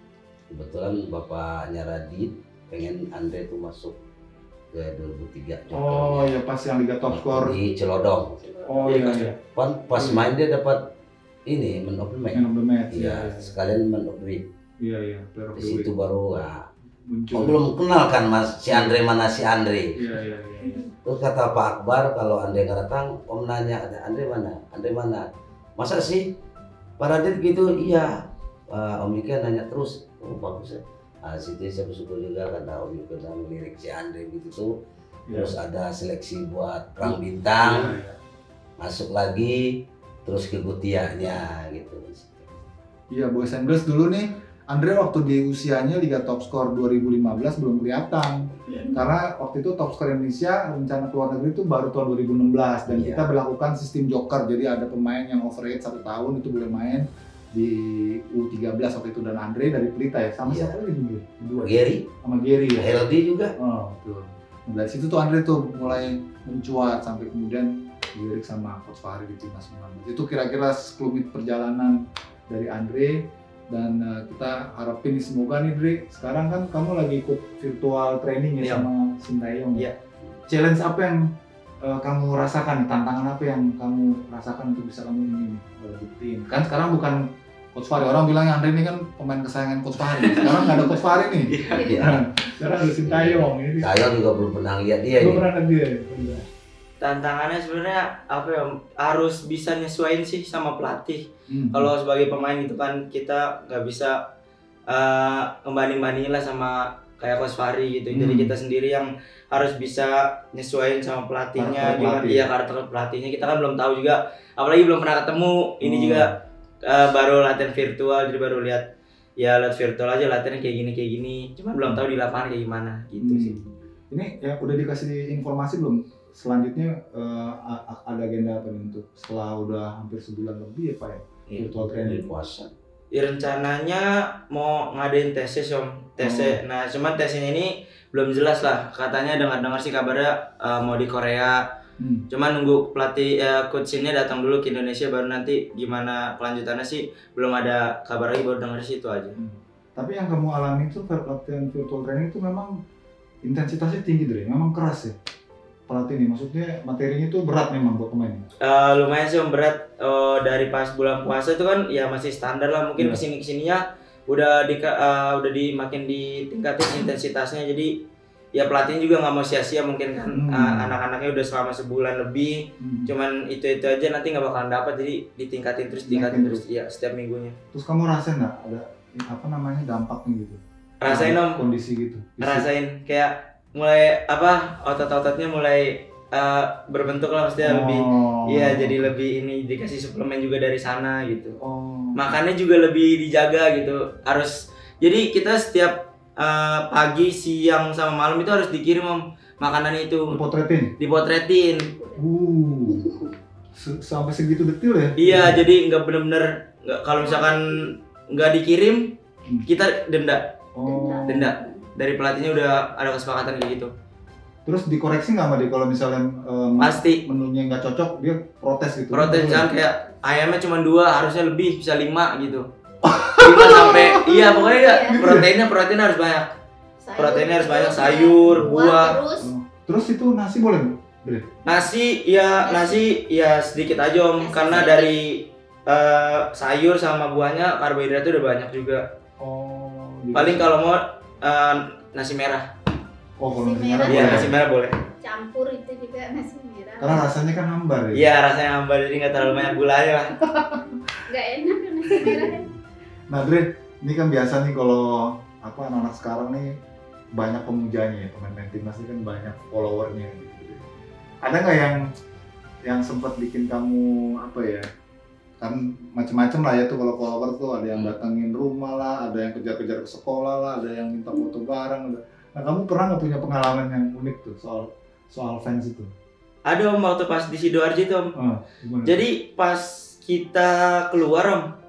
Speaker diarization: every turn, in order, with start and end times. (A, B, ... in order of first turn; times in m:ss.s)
0:00.5-0:04.0 A
0:04.7-0:06.4 A
0:05.7-0:07.6 B
0:07.1-0:08.4 A
0:07.7-0:08.9 C
0:08.7-0:09.4 B
0:08.9-0:09.4 D
0:09.5-0:10.8 A
0:09.9-0:10.3 B
0:11.5-0:14.4 A
0:12.3-0:13.5 B
0:14.8-0:15.9 B
0:15.6-0:16.6 A
0:17.1-0:17.6 B
0:17.4-0:20.0 A
0:18.7-0:19.0 B
0:20.0-0:20.9 B
0:21.0-0:26.4 A
0:27.0-0:28.2 A
0:28.7-0:34.7 A
0:35.3-0:35.6 B
0:35.3-0:37.9 A
0:37.0-0:38.2 B
0:38.8-0:42.5 A
0:43.1-1:03.0 B
0:48.7-0:49.0 C
0:52.9-0:53.2 A
1:00.4-1:00.8 A
1:01.6-1:02.1 A
1:02.8-1:03.5 A
1:03.6-1:19.9 B
1:18.6-1:18.9 D
1:20.5-1:21.2 B
1:21.8-1:27.2 B
1:27.8-1:34.2 B
1:30.1-1:31.0 D
1:31.5-1:31.9 D
1:31.7-1:32.2 A
1:32.9-1:35.4 A
1:35.2-1:36.5 B
1:37.0-1:44.2 D
1:41.5-1:41.9 B
1:44.9-1:56.3 D
1:48.1-1:48.6 B
1:51.6-1:52.5 B
1:55.8-1:56.3 B
1:56.8-1:58.8 D
1:59.4-2:03.6 D
2:03.2-2:12.3 B
2:11.6-2:12.7 A
2:13.1-2:21.6 D
2:16.2-2:16.6 B
2:22.0-2:22.2 B
2:22.3-2:29.4 D
2:29.4-2:32.7 B
2:33.4-2:35.1 B
2:35.9-2:38.4 B
2:38.6-2:47.9 D
2:43.0-2:43.2 B
2:48.6-2:57.6 D
2:50.3-2:50.9 B
2:52.8-2:53.1 B
2:56.1-2:56.6 B
2:57.7-3:02.7 B
3:01.0-3:01.6 D
3:02.4-3:11.6 D
3:07.6-3:09.2 B
3:11.6-3:12.2 B
3:12.2-3:20.4 D
3:20.3-3:20.9 B
3:21.0-3:21.9 D
3:21.9-3:22.3 C
3:22.2-3:23.2 B
3:23.8-3:25.7 B
3:25.2-3:29.1 D
3:27.2-3:27.8 C
3:29.7-3:30.5 D
3:30.8-3:31.5 B
3:30.8-3:31.9 C
3:31.3-3:33.9 D
3:34.7-3:39.7 B
3:36.8-3:37.2 D
3:39.1-3:42.7 D
3:39.8-3:40.4 C
3:43.0-3:45.5 B
3:43.4-3:46.5 D
3:44.3-3:45.2 C
3:47.0-3:49.5 C
3:47.2-3:49.2 D
3:49.4-3:51.5 B
3:51.6-3:59.0 D
3:52.6-3:53.0 C
3:54.4-3:55.1 C
3:59.4-4:00.7 B
4:00.4-4:02.7 D
4:03.4-4:04.5 B
4:03.6-4:04.6 C
4:04.1-4:04.9 D
4:05.2-4:07.3 C
4:07.0-4:08.3 B
4:08.2-4:10.3 D
4:10.4-4:11.0 B
4:11.3-4:12.7 C
4:12.2-4:12.6 B
4:13.3-4:16.7 B
4:17.4-4:20.8 B
4:21.4-4:22.0 B
4:22.9-4:24.8 B
4:25.6-4:36.1 B
4:36.7-4:38.3 D
4:38.4-4:39.2 B
4:39.0-4:41.7 D